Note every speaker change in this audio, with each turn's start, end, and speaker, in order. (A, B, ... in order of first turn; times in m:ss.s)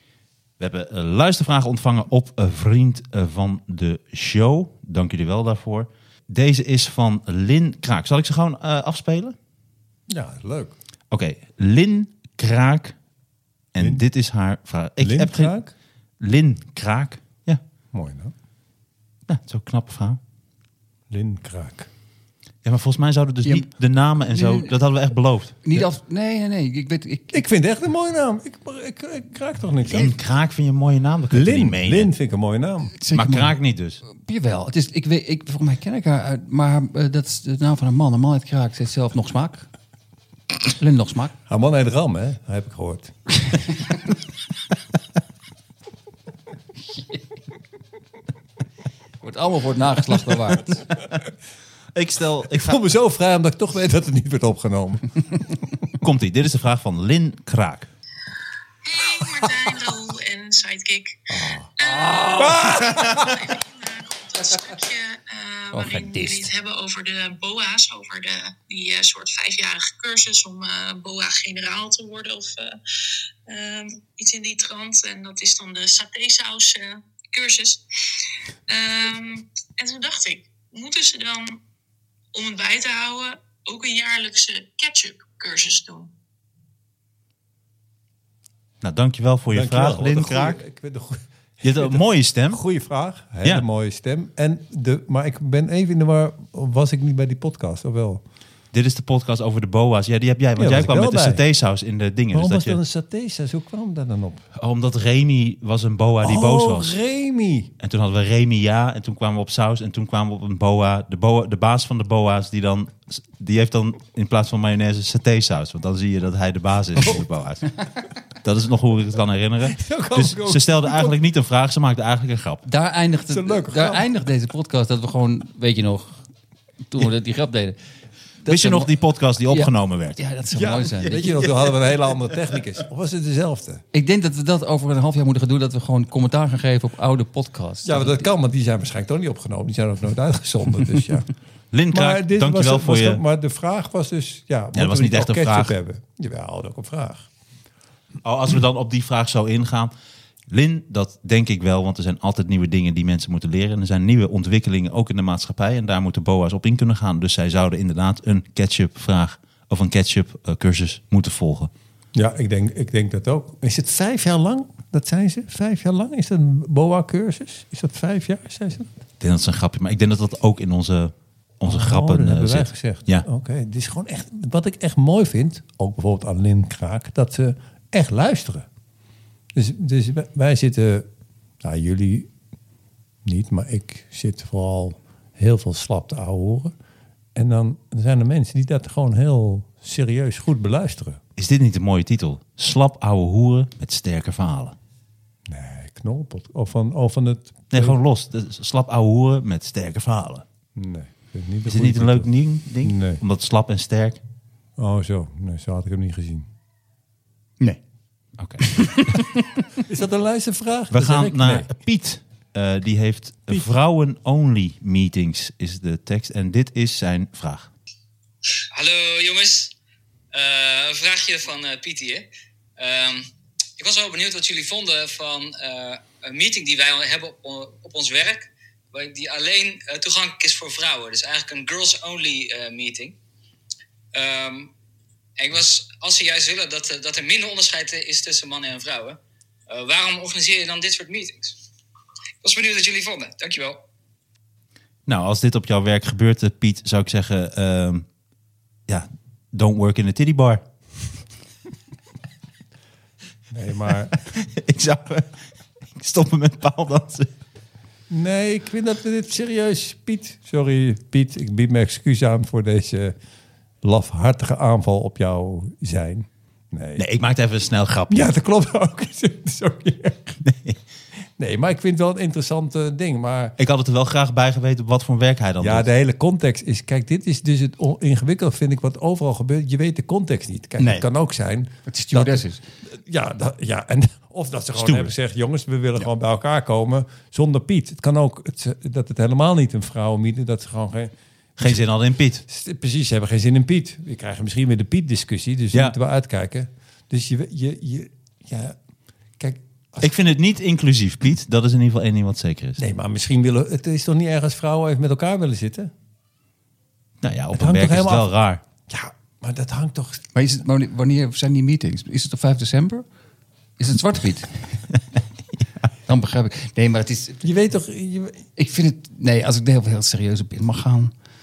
0:00.6-0:09.4 A
0:10.1-0:10.7 B
0:11.1-0:12.9 A
0:13.7-0:15.5 A
0:13.8-0:14.0 B
0:15.0-0:15.7 B
0:16.2-0:17.6 A
0:17.9-0:18.3 B
0:19.3-0:20.2 A
0:21.1-0:21.9 B
0:22.6-0:25.8 A
0:24.3-0:24.7 C
0:25.6-0:27.4 C
0:27.3-0:30.1 B
0:29.8-0:32.1 A
0:31.3-0:32.9 B
0:33.0-0:33.6 C
0:33.1-0:34.0 A
0:34.1-0:39.7 C
0:40.7-0:41.3 C
0:41.5-0:43.1 B
0:49.2-0:50.8 C
0:51.9-0:52.8 A
0:52.5-0:55.2 B
0:56.0-0:57.9 A
0:58.8-1:01.2 D
1:01.3-1:03.3 B
1:01.8-1:12.8 D
1:05.7-1:06.5 C
1:13.5-1:17.8 D
1:18.7-1:21.6 D
1:22.3-1:26.1 D
1:28.8-1:30.6 A
1:29.5-1:38.2 B
1:31.6-1:32.6 A
1:38.7-1:42.8 A
1:40.6-1:41.4 B
1:42.3-1:44.4 B
1:44.5-1:46.9 A
1:46.2-1:47.7 B
1:47.8-1:57.7 A
1:57.0-1:57.2 B
1:58.4-2:02.6 A
1:59.7-2:01.2 B
2:02.6-2:06.2 C
2:03.3-2:04.1 B
2:06.9-2:07.8 C
2:08.4-2:08.9 C
2:08.5-2:10.2 A
2:09.5-2:11.4 C
2:10.5-2:13.8 B
2:11.1-2:11.7 A
2:13.9-2:18.2 C
2:17.8-2:21.3 B
2:21.7-2:23.2 A
2:21.9-2:27.3 B
2:24.7-2:25.7 A
2:28.2-2:29.9 A
2:30.5-2:41.7 A
2:42.1-2:48.9 B
2:49.2-2:53.2 A
2:51.7-2:58.7 B
2:59.5-3:01.1 B
3:01.6-3:02.3 B
3:03.2-3:06.7 B
3:07.3-3:11.2 B
3:11.4-3:14.8 A
3:15.5-3:18.0 B
3:17.7-3:20.4 A
3:20.8-3:22.3 B
3:21.6-3:24.2 A
3:22.8-3:23.2 B
3:24.8-3:26.5 B
3:28.4-3:29.2 A
3:28.6-3:29.4 C
3:29.8-3:31.7 B
3:30.9-3:37.7 A
3:38.7-3:39.7 E
3:40.3-3:53.2 E
3:54.1-3:54.7 E
3:55.4-4:01.6 E
4:02.4-4:03.8 E
4:05.1-4:08.0 A
4:08.9-4:10.6 A
4:13.5-4:14.1 B
4:14.2-4:17.3 A
4:18.1-4:23.2 B
4:23.8-4:27.0 B
4:27.0-4:28.3 A
4:28.1-4:30.4 B
4:30.4-4:30.8 A
4:31.4-4:33.5 B
4:33.6-4:35.8 A
4:35.6-4:51.8 B
4:41.9-4:42.6 C
4:44.8-4:45.1 A
4:51.6-4:52.4 A
4:52.5-4:58.8 B
4:59.4-5:00.1 B
5:00.0-5:02.8 A
5:02.8-5:05.9 B
5:07.2-5:08.6 A
5:07.5-5:08.3 B
5:08.9-5:10.2 B
5:10.3-5:13.0 C
5:13.8-5:14.8 C
5:16.1-5:17.4 C
5:17.4-5:18.4 B
5:18.6-5:21.1 C